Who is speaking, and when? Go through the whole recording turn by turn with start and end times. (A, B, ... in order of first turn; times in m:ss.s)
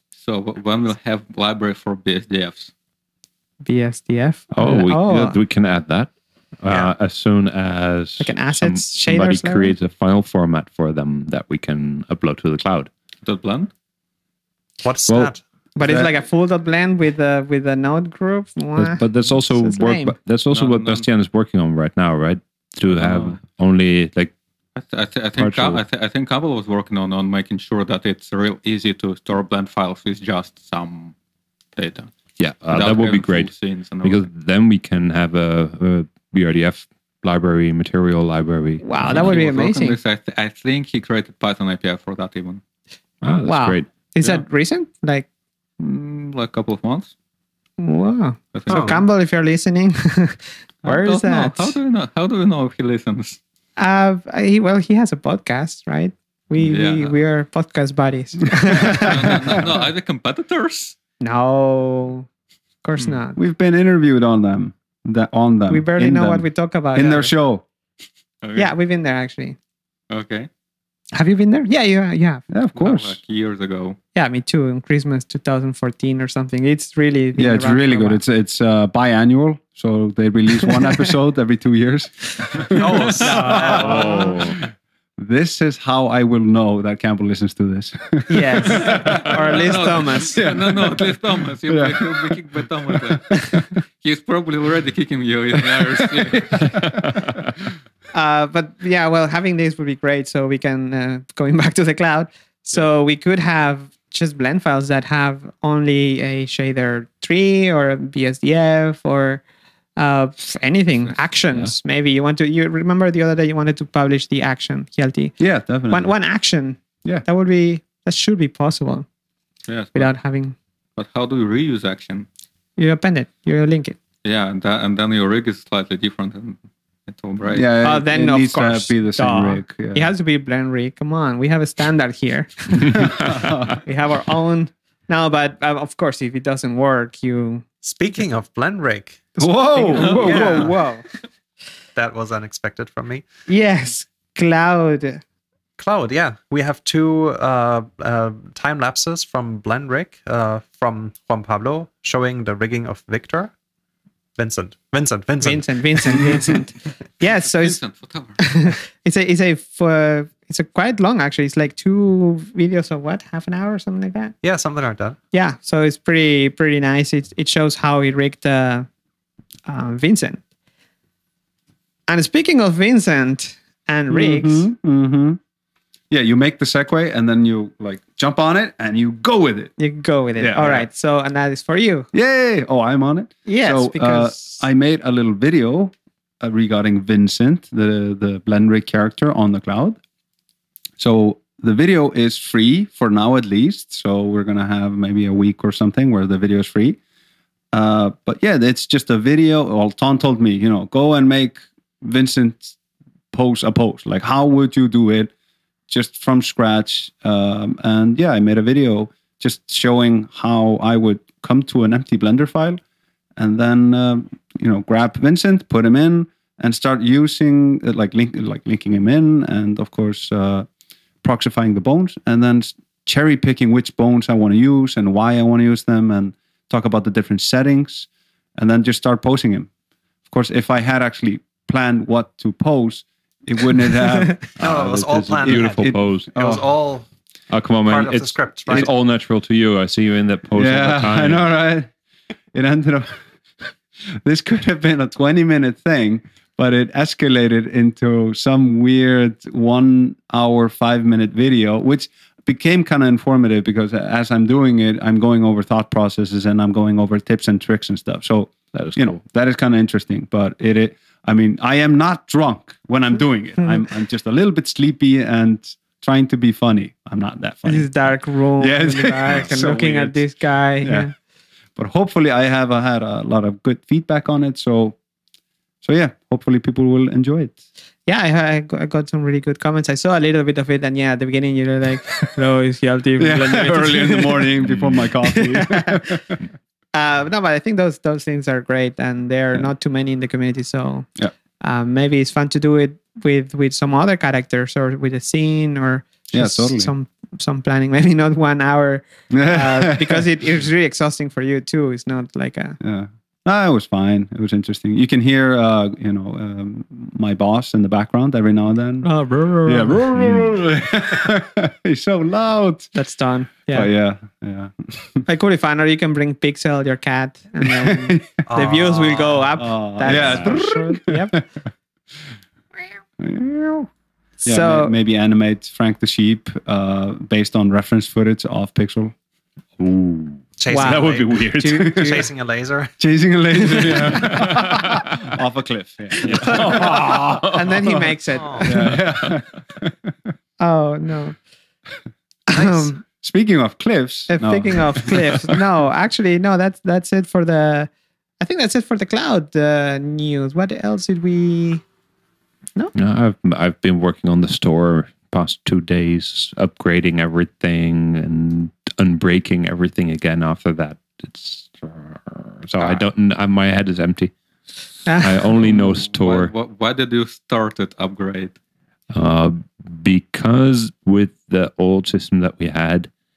0:00.2-0:02.7 A
0:03.6-0:05.4 B
0:04.5-0:06.1 C
0:06.6-0:12.9 C
0:06.7-0:06.9 D
0:08.2-0:09.8 B
0:13.2-0:13.7 A
0:14.8-0:15.4 D
0:15.1-0:15.3 C
0:15.8-0:20.2 B
0:18.8-0:24.3 C
0:20.5-0:21.1 A
0:22.9-0:23.4 A
0:24.8-0:31.1 A
0:25.4-0:25.8 C
0:31.8-0:32.1 A
0:32.4-0:33.5 C
0:32.7-0:34.3 A
0:34.0-0:39.4 C
0:38.8-0:40.0 B
0:39.0-0:42.6 A
0:43.2-0:43.9 C
0:43.4-0:45.3 B
0:45.8-0:47.1 A
0:47.8-0:51.8 B
0:48.5-0:49.0 A
0:48.7-0:49.0 D
0:50.8-0:53.4 A
0:53.8-0:59.6 B
0:56.6-0:57.2 A
0:58.7-1:01.0 A
1:01.2-1:02.3 B
1:02.8-1:03.4 B
1:03.4-1:07.6 E
1:05.7-1:07.3 B
1:08.4-1:08.7 A
1:08.6-1:09.6 B
1:10.1-1:10.5 A
1:11.1-1:12.4 B
1:12.5-1:13.2 E
1:12.8-1:14.0 A
1:14.2-1:18.2 B
1:17.4-1:24.6 E
1:22.7-1:24.3 D
1:23.1-1:24.2 B
1:23.7-1:24.6 C
1:25.2-1:33.7 E
1:28.3-1:30.4 B
1:28.8-1:36.7 A
1:35.8-1:37.2 E
1:36.8-1:37.4 C
1:38.1-1:49.4 B
1:50.0-1:55.4 B
1:55.4-1:56.1 E
1:55.9-1:59.1 B
1:59.7-2:00.1 A
2:00.0-2:00.6 B
2:01.0-2:02.3 A
2:02.8-2:04.0 B
2:04.2-2:07.7 A
2:07.5-2:10.1 E
2:07.8-2:17.6 B
2:12.9-2:13.8 E
2:17.8-2:19.4 D
2:19.4-2:20.7 E
2:19.4-2:21.0 B
2:20.0-2:20.5 A
2:20.0-2:20.7 D
2:22.0-2:23.3 D
2:23.5-2:25.2 B
2:25.8-2:33.5 D
2:34.4-2:36.6 D
2:35.4-2:37.8 B
2:37.2-2:38.6 A
2:38.4-2:44.4 B
2:44.4-2:45.2 D
2:45.3-2:48.9 B
2:49.7-2:50.4 B
2:52.1-2:54.7 B
2:54.1-2:55.4 E
2:56.1-2:59.7 E
2:59.8-3:02.1 B
3:00.4-3:00.9 E
3:02.1-3:10.0 E
3:03.5-3:04.6 B
3:11.0-3:17.0 E
3:17.7-3:22.8 E
3:23.3-3:25.3 E
3:25.9-3:32.8 E
3:33.4-3:40.7 E
3:41.2-3:49.7 E
3:50.3-3:54.5 E
3:54.6-3:56.3 C
3:54.6-3:57.1 D
3:55.4-3:56.6 E
3:57.5-4:01.5 C
3:57.9-3:58.9 D
4:00.6-4:01.9 E
4:02.5-4:03.7 E
4:04.2-4:28.0 E
4:18.7-4:19.2 C
4:27.6-4:31.1 B
4:28.6-4:30.3 E
4:30.8-4:31.1 E
4:31.8-4:35.0 E
4:35.8-4:37.5 E
4:38.1-4:44.5 B
4:43.2-4:46.4 E
4:45.2-4:46.2 B
4:46.9-4:51.1 B
4:51.6-5:02.8 B
4:56.3-4:56.9 E
4:59.3-5:00.2 E
5:02.8-5:09.1 E
5:09.0-5:10.3 B
5:09.6-5:12.9 E
5:13.0-5:13.9 B
5:13.7-5:15.2 E
5:15.3-5:21.4 B
5:17.6-5:18.4 E
5:18.5-5:19.6 D
5:19.6-5:21.4 E
5:20.1-5:20.6 C
5:23.2-5:23.9 E
5:24.4-5:25.0 B
5:24.4-5:29.1 E
5:29.8-5:32.1 C
5:30.6-5:32.9 D
5:30.7-5:32.3 B
5:33.0-5:40.1 E
5:33.6-5:34.3 B
5:33.8-5:35.4 C
5:36.2-5:38.9 B
5:36.2-5:37.6 C
5:38.4-5:38.6 D
5:38.9-5:39.4 C
5:40.6-5:41.4 B
5:42.5-5:42.9 B
5:42.6-5:45.6 E
5:44.3-5:47.9 B
5:48.4-5:51.8 B
5:52.9-6:04.3 C
6:05.1-6:05.5 B
6:05.2-6:06.5 C
6:05.6-6:08.6 A
6:09.1-6:13.1 C